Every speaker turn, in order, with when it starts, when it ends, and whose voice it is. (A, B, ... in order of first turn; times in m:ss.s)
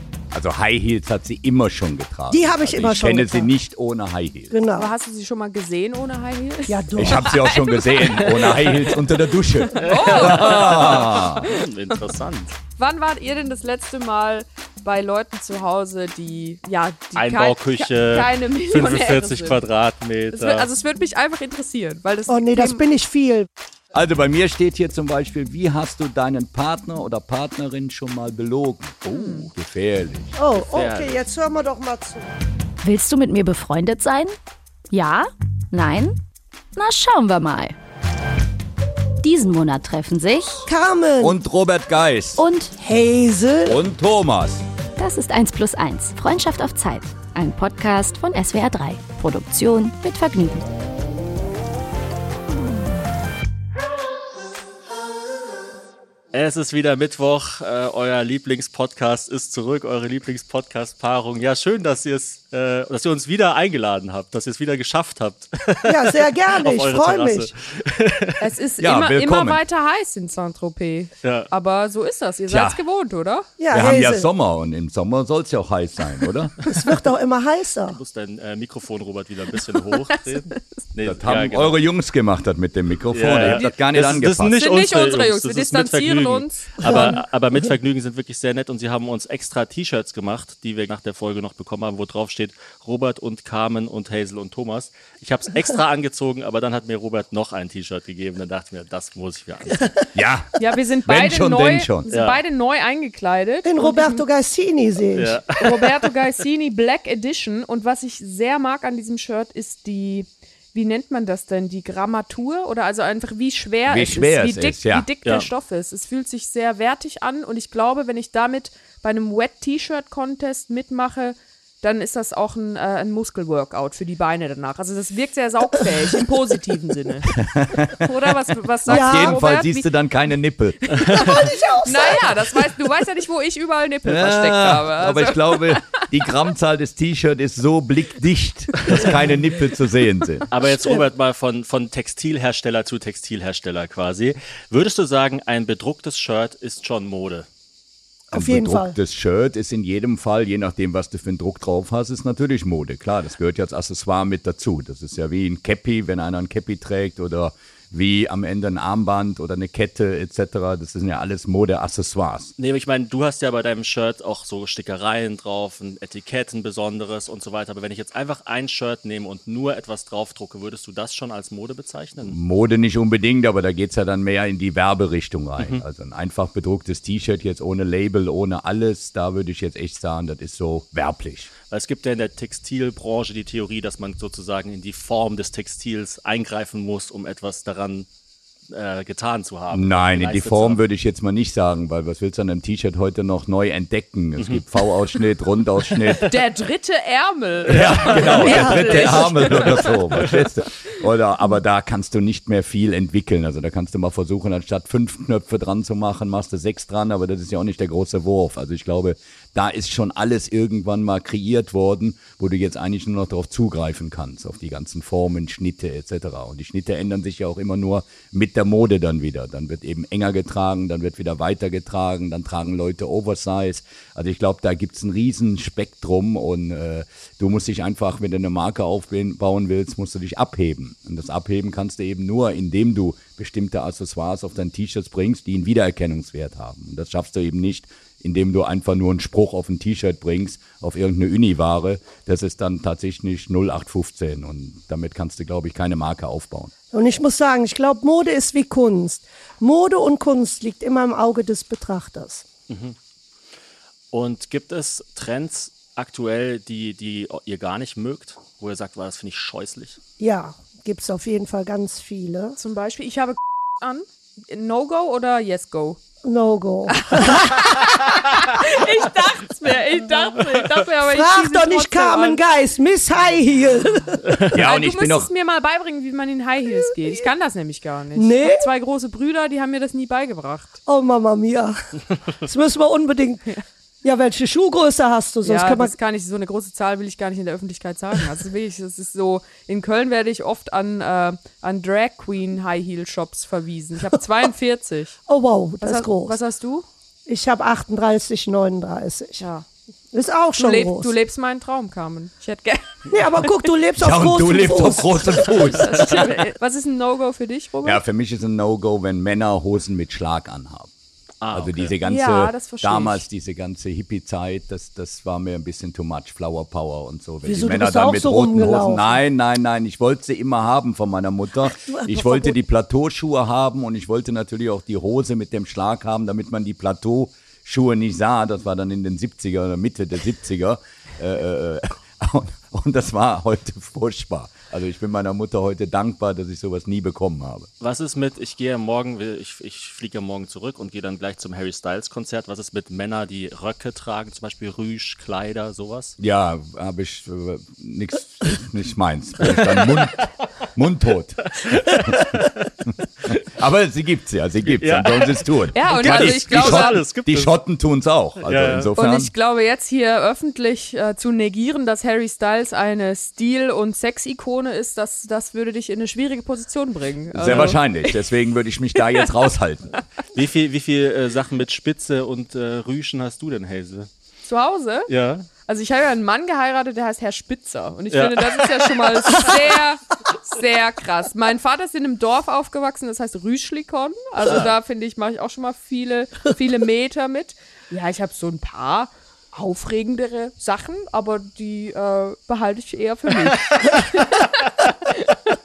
0:00.3-0:04.6 A
0:02.3-0:03.5 B
0:04.5-0:04.9 B
0:04.7-0:08.9 C
0:06.7-0:07.6 B
0:07.0-0:11.4 A
0:09.6-0:11.6 C
0:09.8-0:12.5 D
0:12.8-0:19.6 C
0:17.2-0:20.7 D
0:20.3-0:22.8 C
0:22.3-0:23.5 B
0:23.9-0:30.4 A
0:29.1-0:29.5 C
0:30.4-0:32.3 B
0:30.5-0:31.2 D
0:32.8-0:34.3 E
0:34.9-0:36.2 E
0:36.8-0:37.7 E
0:39.2-0:40.7 E
0:40.7-0:41.4 B
0:41.2-0:42.4 A
0:42.4-0:42.7 E
0:42.8-0:43.8 B
0:43.6-0:44.6 A
0:45.0-0:50.6 E
0:56.3-1:08.4 D
1:05.8-1:07.5 B
1:08.4-1:13.5 C
1:08.8-1:09.6 A
1:11.2-1:11.5 D
1:12.5-1:12.8 A
1:13.6-1:14.3 B
1:13.7-1:16.6 A
1:16.7-1:18.0 B
1:17.9-1:21.8 D
1:20.2-1:20.8 C
1:21.0-1:24.6 A
1:23.1-1:40.0 D
1:23.4-1:23.8 C
1:24.4-1:27.2 C
1:26.8-1:27.2 B
1:40.1-1:42.1 A
1:40.6-1:44.2 C
1:42.1-1:42.4 D
1:43.6-1:45.4 B
1:45.1-1:45.6 D
1:45.6-2:07.4 C
1:53.9-1:55.1 A
2:07.3-2:08.1 A
2:08.0-2:09.9 C
2:08.9-2:11.3 A
2:08.9-2:09.4 B
2:10.8-2:15.9 C
2:11.0-2:12.6 B
2:14.0-2:20.5 A
2:20.5-2:27.5 D
2:20.6-2:21.0 B
2:28.3-2:29.0 B
2:28.3-2:42.5 A
2:42.6-2:52.4 D
2:52.3-3:01.5 A
2:55.6-2:55.8 D
3:01.7-3:08.1 D
3:08.7-3:10.8 D
3:09.7-3:16.3 A
3:14.4-3:15.2 D
3:16.2-3:20.1 C
3:17.7-4:06.7 A
3:17.7-3:20.5 D
4:06.9-4:12.4 B
4:12.7-4:13.0 D
4:14.1-4:20.0 D
4:20.2-4:22.6 B
4:22.6-4:26.0 C
4:26.2-4:28.1 B
4:26.9-4:32.4 C
4:31.0-4:34.4 B
4:34.4-4:35.3 A
4:34.6-4:40.8 C
4:38.2-4:38.7 B
4:40.9-4:43.4 B
4:44.0-4:45.9 B
4:45.4-4:55.2 C
4:55.3-4:56.4 B
4:55.8-4:56.9 C
4:57.3-4:59.4 B
4:59.4-4:59.6 C
5:00.1-5:01.1 B
5:00.6-5:03.2 C
5:03.1-5:05.6 B
5:04.0-5:06.2 A
5:05.6-5:08.0 C
5:07.8-5:10.9 A
5:11.4-5:11.9 D
5:11.5-5:37.7 A
5:12.0-5:13.2 C
5:17.4-5:19.1 B
5:21.8-5:22.6 B
5:37.8-5:46.2 D
5:46.2-5:59.3 A
5:49.4-5:50.3 D
5:51.5-5:52.7 D
5:54.7-5:57.6 D
5:55.7-5:57.0 C
5:58.4-5:58.9 D
5:59.0-6:08.2 C
6:07.3-6:10.0 A
6:10.3-6:14.1 D
6:14.4-6:15.1 C
6:15.1-6:15.5 D
6:15.6-6:35.3 C
6:18.1-6:19.5 D